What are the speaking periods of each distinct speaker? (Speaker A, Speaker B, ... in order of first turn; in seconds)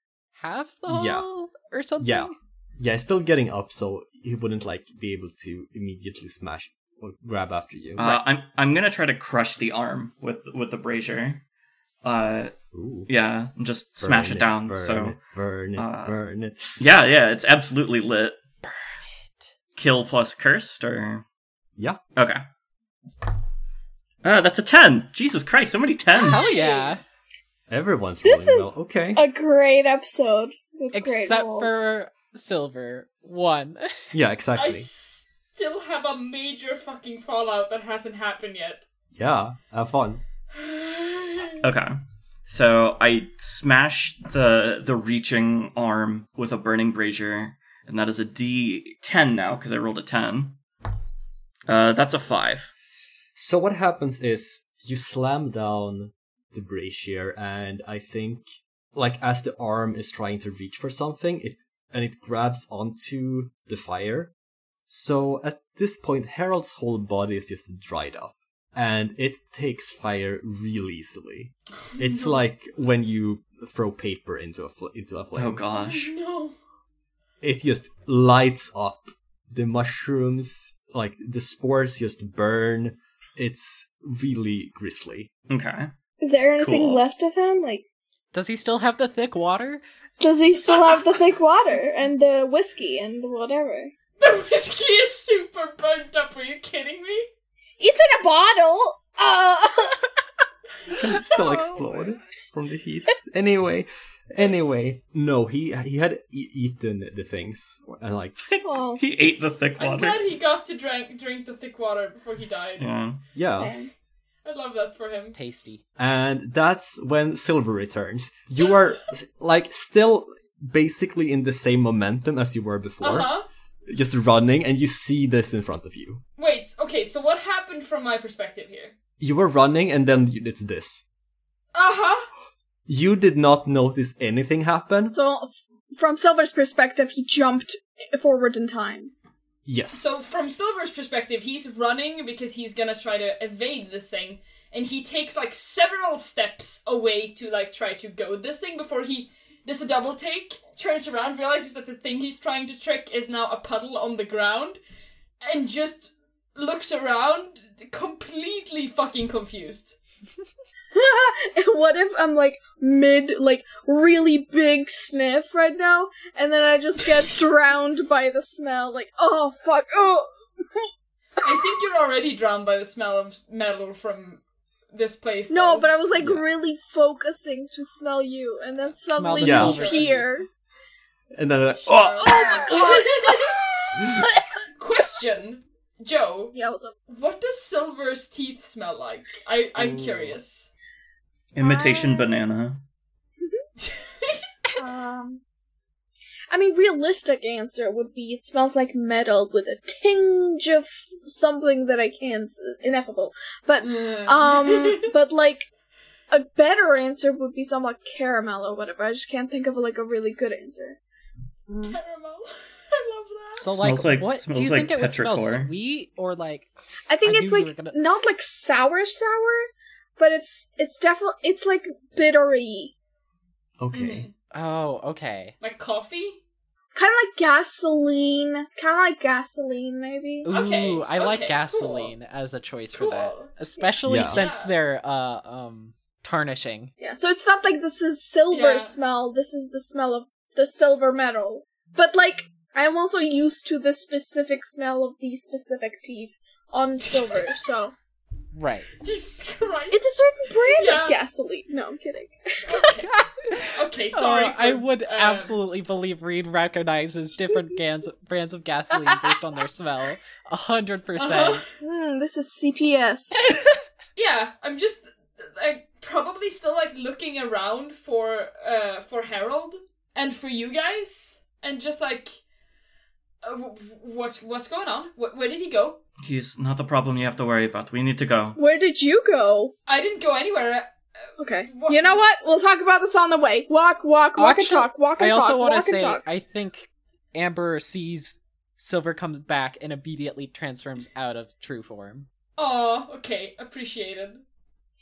Speaker A: 0.3-2.3, 18.6-19.5, 26.3-27.0, 30.9-34.1, 88.3-89.8, 115.3-115.8, 179.1-180.3, 213.5-216.7, 217.2-217.9, 224.5-225.5, 230.4-236.9, 248.5-248.9, 253.0-261.7, 284.4-292.3
Speaker B: 0.9-1.2, 2.0-8.2, 12.7-13.1, 14.0-16.8, 27.7-29.2, 34.1-34.9, 39.1-40.2, 53.3-58.4, 58.9-64.3, 64.9-75.6, 77.4-85.3, 100.9-108.4, 113.3-113.8, 116.0-123.3, 123.8-126.2, 129.2-131.0, 132.9-135.1, 139.7-140.1, 176.2-176.4, 179.4-179.8, 181.3-183.0, 189.8-190.4, 223.8-224.3, 234.0-234.4
Speaker C: 8.0-11.4, 12.0-12.5, 13.1-15.2, 15.8-16.1, 16.8-18.4, 19.8-21.2, 22.1-22.4, 24.2-26.5, 41.6-41.9, 42.5-50.6, 51.7-52.7, 75.3-76.1, 85.5-85.9, 86.6-87.0, 108.5-110.2, 112.8-113.2, 191.5-192.8, 213.8-215.7, 276.2-278.6
Speaker D: 26.1-27.0, 34.5-38.8, 40.5-41.6, 72.0-72.3, 75.7-76.5, 94.2-97.3, 109.8-112.9, 114.4-115.4, 123.0-123.5, 126.4-128.9, 131.7-132.3, 139.9-154.8, 155.4-160.0, 171.4-175.9, 179.3-180.1, 181.8-184.2, 184.8-186.6, 187.1-190.7, 193.8-194.4, 203.8-205.0, 211.8-213.8, 223.9-224.3, 225.6-226.4, 230.5-232.1, 232.9-233.5, 234.2-234.7, 238.5-239.0, 247.1-247.6, 249.0-250.1, 250.7-251.2, 252.7-253.1, 253.7-255.6, 261.1-261.6, 264.1-272.4, 273.4-276.0, 279.9-280.9, 281.7-282.2, 292.6-294.4
Speaker E: 28.2-31.9, 86.2-87.8, 90.2-93.9, 97.8-100.1, 101.1-101.9, 108.6-109.0, 113.6-113.9, 135.1-139.1, 160.9-170.9, 175.5-180.5, 182.2-183.5, 184.1-184.4, 186.5-186.9, 191.6-192.3, 194.8-195.4, 196.5-205.7, 206.3-211.0, 217.1-222.9, 226.9-230.5, 237.0-247.9, 249.9-252.7, 261.8-263.5, 278.6-279.7, 281.4-286.2